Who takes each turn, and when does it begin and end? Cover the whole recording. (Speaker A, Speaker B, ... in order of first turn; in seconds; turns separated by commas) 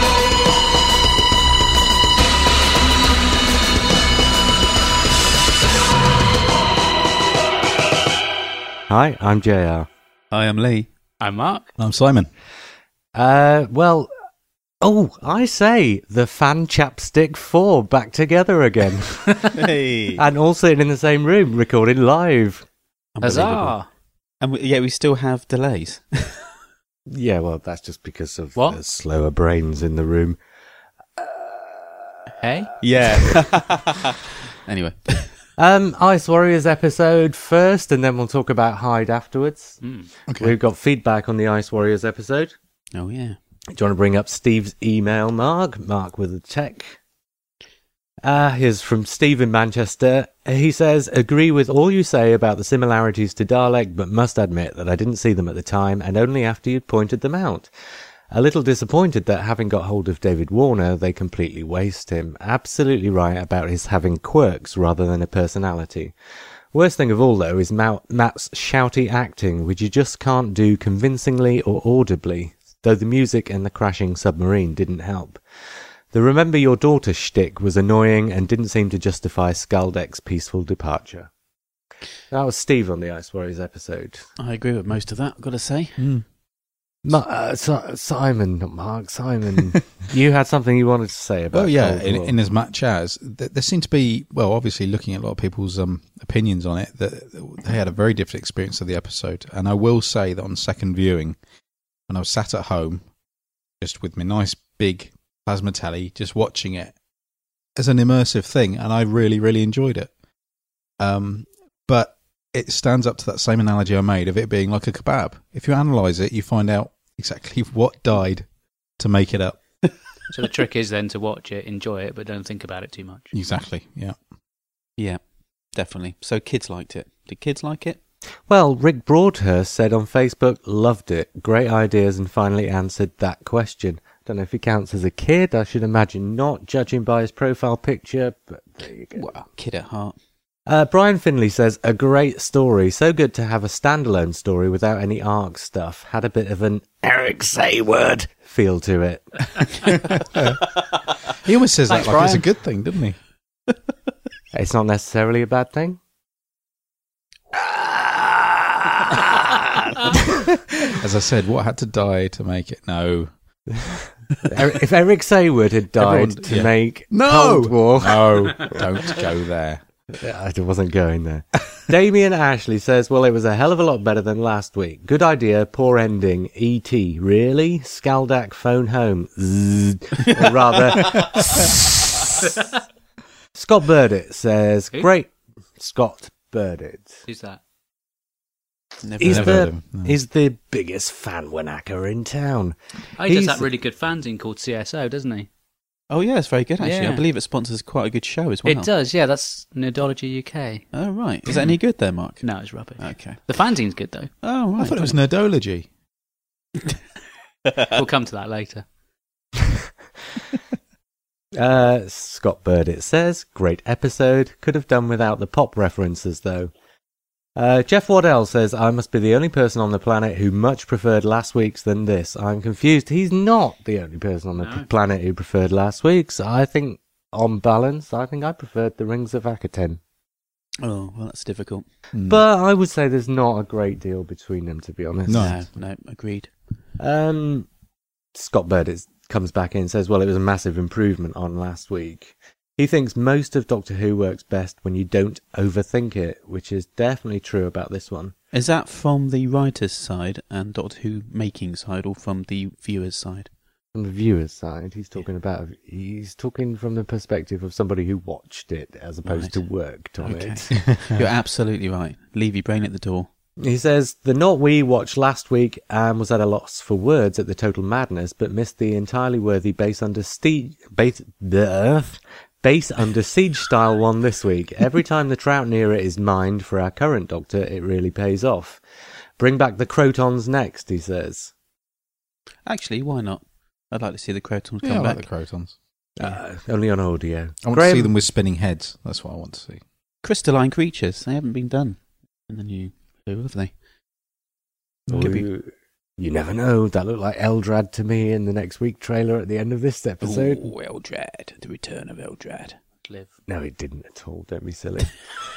Speaker A: 8.9-9.9, Speaker B: 10.3-10.9, Speaker C: 11.2-11.7, Speaker D: 11.8-12.3, Speaker A: 13.1-14.1, Speaker A: 14.8-19.6, Speaker B: 19.5-20.2, Speaker A: 20.1-22.6, Speaker B: 23.1-23.7, Speaker C: 23.2-23.9, Speaker B: 24.4-26.5, Speaker A: 27.1-30.4, Speaker A: 31.2-32.1, Speaker C: 32.4-32.7, Speaker B: 32.8-35.3, Speaker A: 35.6-39.8, Speaker C: 39.8-40.1, Speaker D: 40.3-40.5, Speaker A: 40.4-42.5, Speaker B: 42.9-43.4, Speaker A: 43.7-47.0, Speaker A: 48.2-57.7, Speaker A: 58.3-66.1, Speaker A: 66.7-75.4, Speaker A: 76.1-81.3, Speaker A: 82.3-84.2, Speaker B: 84.4-86.0, Speaker D: 86.0-86.2, Speaker A: 87.0-92.3, Speaker D: 91.5-101.4, Speaker D: 102.1-103.0, Speaker D: 103.8-106.9, Speaker D: 107.8-110.1, Speaker D: 111.0-118.5, Speaker D: 119.0-119.6, Speaker C: 120.3-123.3, Speaker D: 123.3-124.2, Speaker B: 125.7-128.0, Speaker A: 128.5-139.3, Speaker B: 139.2-140.2, Speaker A: 140.7-150.4, Speaker D: 150.3-150.6, Speaker D: 151.4-153.2, Speaker C: 151.9-152.4, Speaker A: 154.5-156.0, Speaker A: 157.5-160.5, Speaker D: 160.8-163.3, Speaker A: 163.7-169.3, Speaker D: 165.9-169.8, Speaker A: 170.1-182.6, Speaker A: 183.5-187.2, Speaker C: 187.3-187.6, Speaker B: 189.0-189.6, Speaker A: 189.2-192.7, Speaker D: 189.2-190.2, Speaker C: 193.2-195.5, Speaker A: 193.3-193.6, Speaker B: 196.1-198.9, Speaker C: 196.8-197.2, Speaker C: 198.7-200.8, Speaker B: 200.9-202.4, Speaker C: 202.4-204.3, Speaker B: 203.0-203.4, Speaker B: 204.4-205.2, Speaker D: 204.8-205.9, Speaker C: 207.8-208.8, Speaker A: 211.5-216.7, Speaker A: 217.6-230.0, Speaker C: 224.6-224.9, Speaker B: 230.8-231.8, Speaker D: 232.1-232.4, Speaker A: 232.2-235.6, Speaker D: 235.3-235.6, Speaker B: 235.3-236.5, Speaker A: 237.0-237.7, Speaker A: 238.3-248.3, Speaker B: 248.5-253.5, Speaker A: 253.9-260.7, Speaker B: 259.2-259.6, Speaker B: 260.2-263.3, Speaker A: 263.6-278.8, Speaker A: 279.4-281.5, Speaker B: 282.6-285.2, Speaker D: 284.8-285.7, Speaker A: 286.2-288.1, Speaker D: 287.6-289.8, Speaker B: 290.2-293.7, Speaker B: 295.1-295.4, Speaker A: 295.1-300.7, Speaker B: 300.2-302.8, Speaker C: 303.0-303.3, Speaker A: 303.5-305.2